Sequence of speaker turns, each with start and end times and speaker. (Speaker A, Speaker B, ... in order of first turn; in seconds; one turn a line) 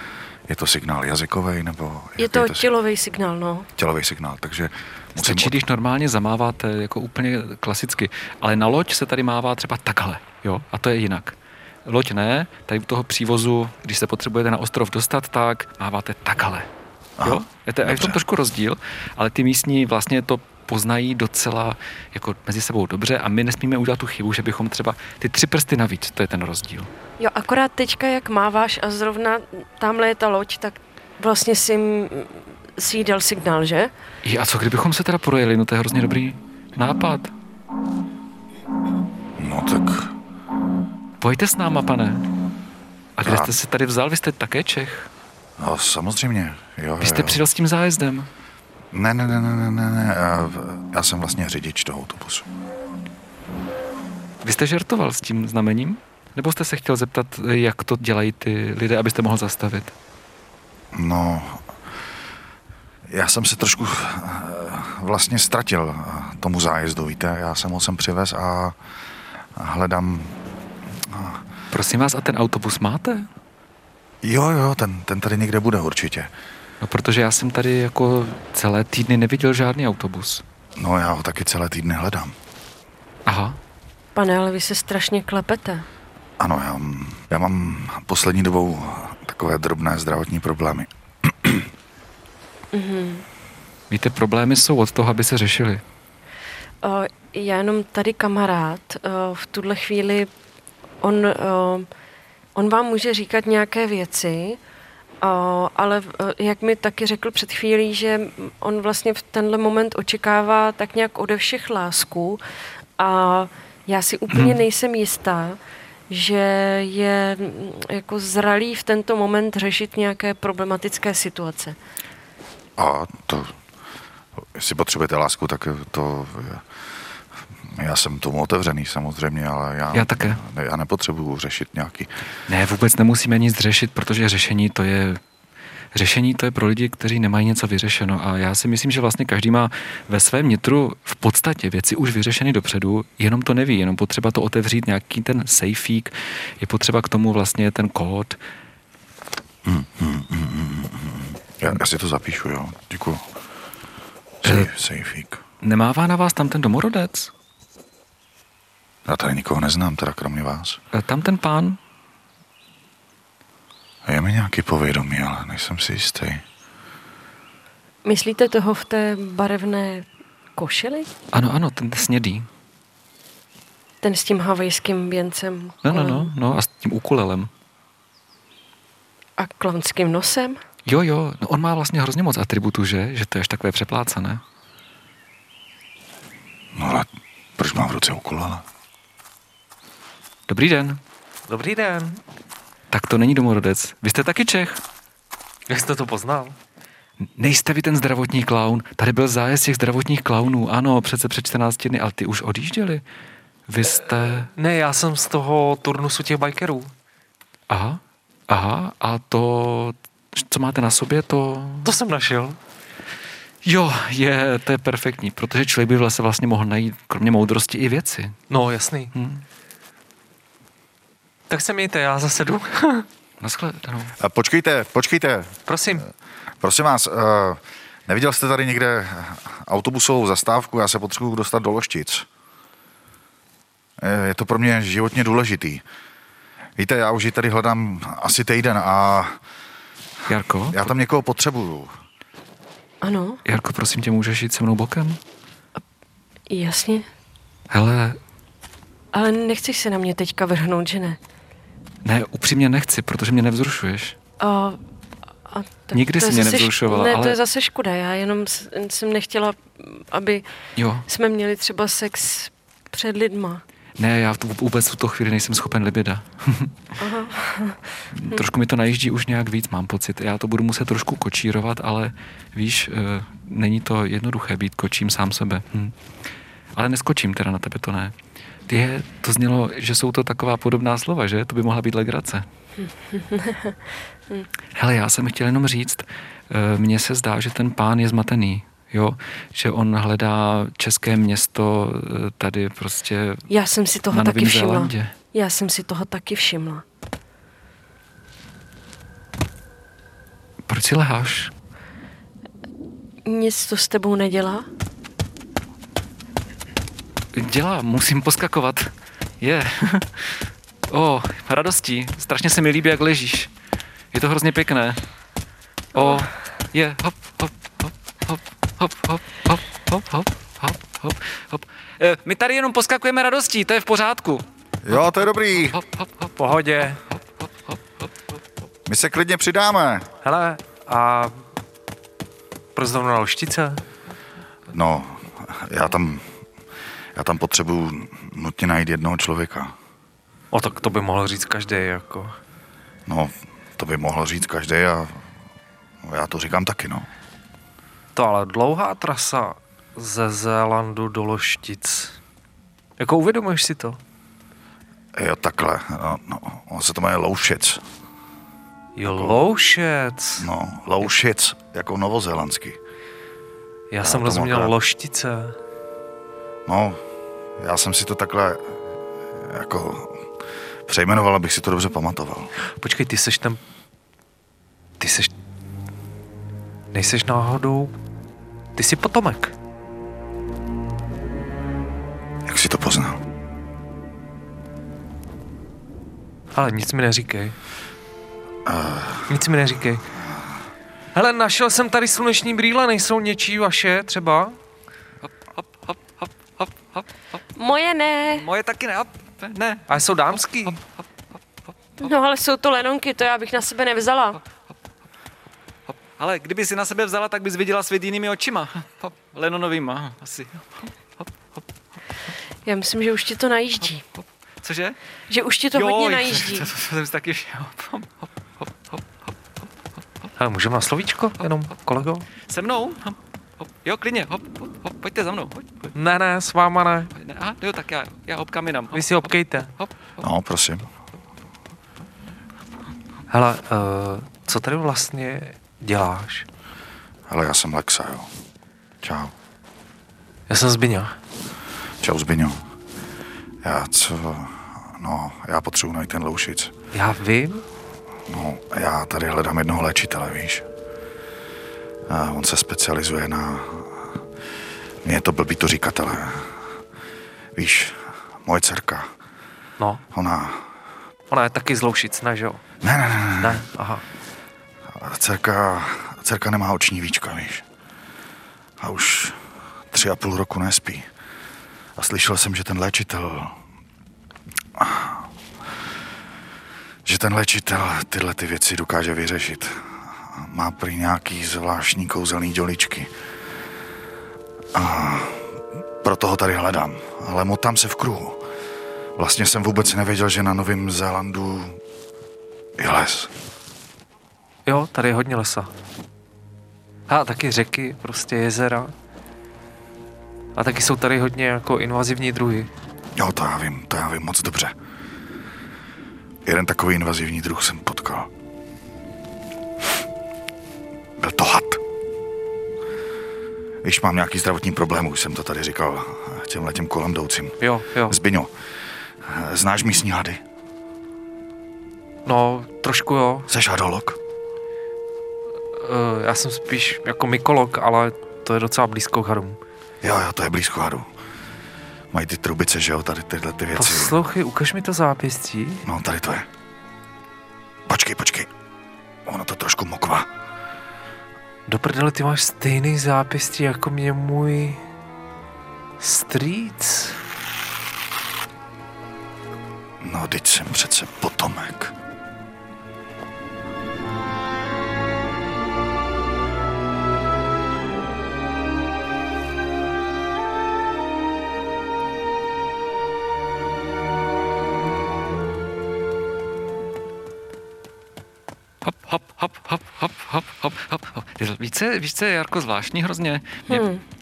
Speaker A: 0.5-2.7
Speaker B: 2.2-3.7
Speaker A: 3.8-5.5
Speaker C: 5.2-16.7
Speaker A: 17.2-18.2
Speaker C: 17.2-26.9
Speaker B: 27.2-33.9
Speaker C: 34.2-37.3
Speaker A: 39.4-40.1
Speaker C: 41.2-42.2
Speaker C: 43.2-45.1
Speaker A: 43.2-43.5
Speaker A: 45.6-47.4
Speaker C: 47.0-48.3
Speaker A: 48.9-52.5
Speaker C: 54.4-59.9
Speaker A: 60.9-61.6
Speaker A: 63.1-68.8
Speaker A: 69.5-70.4
Speaker A: 71.0-71.4
Speaker C: 71.7-73.3
Speaker A: 74.2-76.3
Speaker C: 76.8-80.4
Speaker A: 80.8-82.3
Speaker C: 83.2-83.6
Speaker B: 84.1-85.8
Speaker A: 86.4-91.7
Speaker B: 92.7-93.2
Speaker C: 93.9-95.8
Speaker B: 96.8-100.3
Speaker B: 101.0-101.9
Speaker B: 102.5-104.6
Speaker B: 105.2-112.4
Speaker B: 113.0-115.6
Speaker C: 114.3-114.6
Speaker B: 116.1-121.8
Speaker A: 122.8-123.5
Speaker A: 124.5-126.6
Speaker A: 127.6-132.1
Speaker C: 129.9-130.4
Speaker C: 132.5-135.2
Speaker C: 135.9-148.4
Speaker A: 149.6-153.3
Speaker A: 154.4-155.4
Speaker C: 154.4-154.7
Speaker C: 155.6-157.3
Speaker A: 159.1-160.8
Speaker C: 160.9-161.8
Speaker A: 164.0-166.4
Speaker B: 168.0-171.1
Speaker C: 171.3-172.5
Speaker B: 174.0-176.3
Speaker C: 175.8-177.5
Speaker B: 179.4-180.6
Speaker C: 180.8-184.4
Speaker A: 186.7-188.6
Speaker C: 190.5-191.0
Speaker D: 191.5-192.2
Speaker C: 192.9-194.8
Speaker D: 195.7-196.6
Speaker C: 197.2-203.0
Speaker C: 203.7-204.5
Speaker D: 204.4-206.9
Speaker C: 207.7-211.9
Speaker D: 211.8-212.6
Speaker C: 213.6-218.4
Speaker D: 218.5-219.1
Speaker C: 219.1-219.4
Speaker D: 221.5-223.1
Speaker C: 223.4-224.1
Speaker A: 224.2-225.6
Speaker D: 225.7-226.1
Speaker A: 226.6-232.3
Speaker A: 234.0-235.8
Speaker A: 236.8-239.4
Speaker C: 240.3-240.9
Speaker A: 240.7-241.9
Speaker B: 243.0-243.4
Speaker C: 243.4-245.2
Speaker B: 246.5-247.1
Speaker C: 247.7-248.2
Speaker B: 249.1-251.2
Speaker C: 252.0-254.2
Speaker B: 254.4-254.8
Speaker B: 255.5-260.4
Speaker C: 255.9-257.4
Speaker C: 260.8-261.1
Speaker B: 261.1-263.6
Speaker C: 264.0-266.7
Speaker B: 267.0-268.4
Speaker C: 268.1-275.9
Speaker C: 276.7-278.1
Speaker C: 278.7-282.4
Speaker B: 283.1-283.8
Speaker C: 284.7-293.5
Speaker B: 293.5-296.8
Speaker C: 294.1-295.1
Speaker C: 300.7-301.5
Speaker B: 303.2-304.6
Speaker C: 307.3-313.5
Speaker C: 314.1-315.0
Speaker C: 315.9-326.3
Speaker A: 324.8-325.8
Speaker D: 326.4-327.0
Speaker C: 327.4-328.1
Speaker A: 328.9-330.1
Speaker D: 330.2-331.4
Speaker D: 332.7-333.8
Speaker A: 334.7-336.2
Speaker A: 337.1-339.7
Speaker D: 340.5-342.3
Speaker A: 343.1-345.2
Speaker A: 346.0-347.1
Speaker D: 348.1-352.2
Speaker D: 353.0-354.0
Speaker A: 355.1-357.8
Speaker D: 358.9-360.5
Speaker A: 359.1-359.4
Speaker A: 360.4-362.8
Speaker D: 363.9-365.5
Speaker A: 364.0-364.7
Speaker A: 366.6-367.0
Speaker A: 367.6-368.8
Speaker A: 369.3-370.2
Speaker A: 370.9-372.5
Speaker D: 372.8-373.6
Speaker D: 375.0-375.3
Speaker D: 376.9-377.9
Speaker D: 378.8-379.5
Speaker A: 382.4-383.2
Speaker D: 386.5-387.5
Speaker A: 388.6-389.4
Speaker D: 389.3-390.0
Speaker A: 390.2-390.6
Speaker D: 391.1-394.6
Speaker C: 395.2-397.1
Speaker B: 397.6-398.4
Speaker C: 398.3-401.0
Speaker D: 399.9-400.8
Speaker B: 402.0-404.4
Speaker C: 405.9-411.6
Speaker B: 412.6-414.0
Speaker C: 414.6-415.0
Speaker B: 415.3-416.7
Speaker C: 415.7-419.3
Speaker D: 420.4-422.3
Speaker C: 422.4-425.9
Speaker D: 425.9-427.1
Speaker C: 427.1-429.9
Speaker D: 428.9-429.7
Speaker A: 430.2-430.9
Speaker D: 433.3-436.4
Speaker A: 437.3-438.3
Speaker A: 439.0-439.3
Speaker D: 440.5-441.1
Speaker A: 442.0-442.6
Speaker A: 443.6-446.7
Speaker D: 446.9-447.6
Speaker A: 448.3-450.6
Speaker A: 452.1-454.2
Speaker A: 455.0-456.6
Speaker A: 457.6-459.1
Speaker A: 460.1-460.6
Speaker D: 461.3-462.6
Speaker A: 462.8-463.6
Speaker D: 463.4-464.0
Speaker A: 464.9-467.6
Speaker A: 468.8-469.4
Speaker A: 469.9-471.1
Speaker A: 472.0-473.6
Speaker A: 474.7-475.3
Speaker A: 477.0-483.1
Speaker A: 484.7-485.5
Speaker A: 486.0-488.4
Speaker A: 489.2-491.8
Speaker A: 492.8-493.3
Speaker D: 494.6-495.7
Speaker D: 497.1-498.9
Speaker D: 500.5-502.7
Speaker A: 503.2-504.7
Speaker A: 506.4-508.3
Speaker A: 511.2-511.8
Speaker A: 513.8-518.5
Speaker D: 517.6-518.2
Speaker A: 519.2-520.4
Speaker D: 522.2-523.5
Speaker A: 523.5-524.2
Speaker D: 525.7-529.6
Speaker A: 530.0-531.1
Speaker A: 532.1-534.2
Speaker D: 533.7-535.8
Speaker A: 535.8-536.5
Speaker A: 537.9-538.5
Speaker A: 539.2-540.3
Speaker D: 541.7-544.8
Speaker D: 546.0-547.2
Speaker A: 550.0-551.9
Speaker C: 568.8-573.8
Speaker B: 573.7-574.0